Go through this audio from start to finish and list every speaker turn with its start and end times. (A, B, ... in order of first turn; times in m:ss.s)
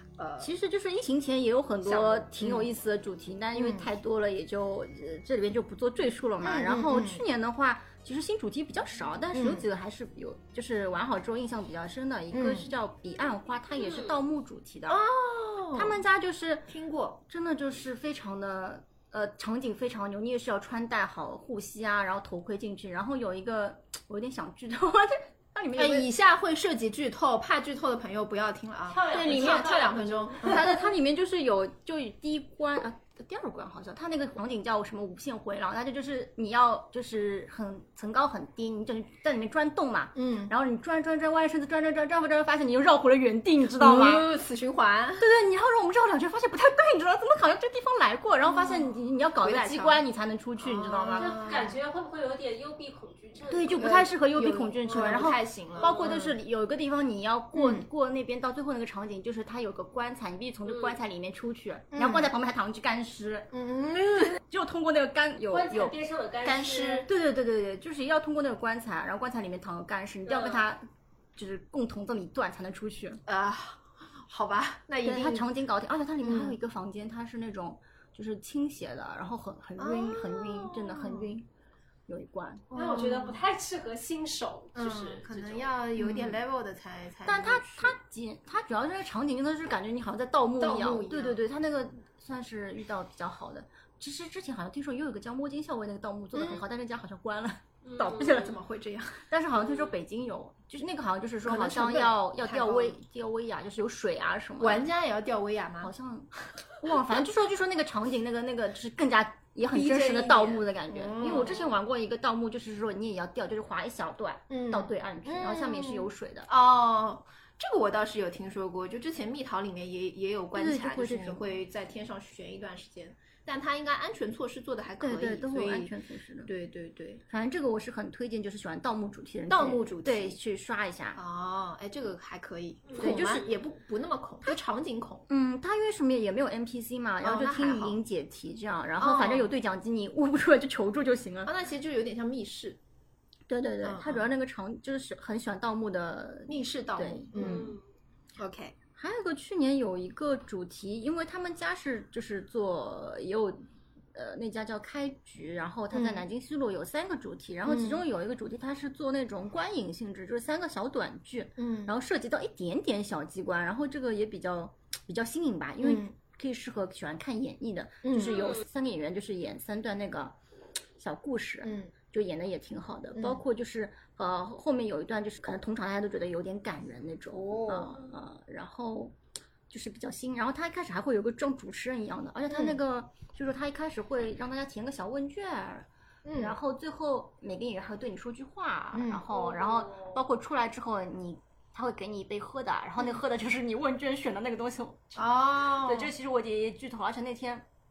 0:00.2-0:00.5 A
0:00.4-0:15.0 B
0:01.8-0:02.7 A
0:03.5-0:03.9 A
0:06.4-0:07.2 A
0:09.3-0:09.7 A
0:12.3-0:12.7 A
0:13.8-0:14.1 C
0:14.9-0:16.0 A
0:15.7-0:16.7 B
0:16.7-0:17.2 A
0:17.3-0:26.1 B
0:25.8-0:30.7 A
0:28.9-0:30.6 C
0:29.1-0:29.9 B
0:30.4-0:44.2 B
0:40.1-0:40.5 A
0:43.8-0:45.3 A
0:45.2-0:51.4 B
0:48.4-0:50.0 A
0:50.6-0:51.8 A
0:51.2-0:53.8 C
0:53.5-1:03.5 B
0:53.8-0:56.4 A
0:55.8-0:56.1 C
0:57.5-0:57.9 A
1:00.7-1:00.9 C
1:01.9-1:02.3 A
1:03.5-1:04.4 A
1:04.3-1:06.0 B
1:05.5-1:07.1 C
1:06.4-1:07.1 A
1:07.0-1:13.2 B
1:10.3-1:10.6 C
1:13.3-1:15.5 A
1:15.0-1:21.5 B
1:16.2-1:16.6 A
1:19.8-1:21.4 A
1:22.1-1:22.7 B
1:22.7-1:23.4 A
1:22.7-1:25.7 C
1:24.8-1:28.0 A
1:26.0-1:26.4 B
1:27.2-1:38.6 B
1:30.6-1:31.4 A
1:36.4-1:36.6 A
1:37.8-1:38.5 C
1:38.0-1:39.2 A
1:39.3-1:44.9 B
1:41.4-1:43.0 A
1:44.6-1:45.9 A
1:45.8-1:56.5 B
1:49.7-1:51.7 A
1:54.5-2:05.9 A
2:00.5-2:01.5 B
2:05.0-2:06.5 B
2:06.5-2:07.2 A
2:07.3-2:11.2 B
2:09.5-2:10.4 A
2:11.1-2:15.3 A
2:12.9-2:13.2 C
2:13.0-2:13.5 B
2:15.3-2:21.5 B
2:17.2-2:18.0 A
2:19.0-2:19.5 A
2:21.4-2:22.8 A
2:23.5-2:27.7 B
2:23.8-2:24.3 A
2:26.5-2:27.8 A
2:27.4-2:27.8 C
2:28.4-2:28.8 A
2:29.0-2:50.4 B
2:35.9-2:36.2 A
2:37.6-2:38.0 A
2:41.6-2:41.9 A
2:45.8-2:46.1 A
2:48.0-2:48.4 A
2:48.3-2:48.6 C
2:51.0-2:59.1 B
2:51.6-2:51.9 A
2:53.1-2:53.4 A
2:57.3-2:58.0 A
2:59.7-3:17.6 B
3:02.5-3:02.8 A
3:06.2-3:06.6 A
3:08.9-3:09.2 A
3:09.3-3:10.2 C
3:15.2-3:16.1 A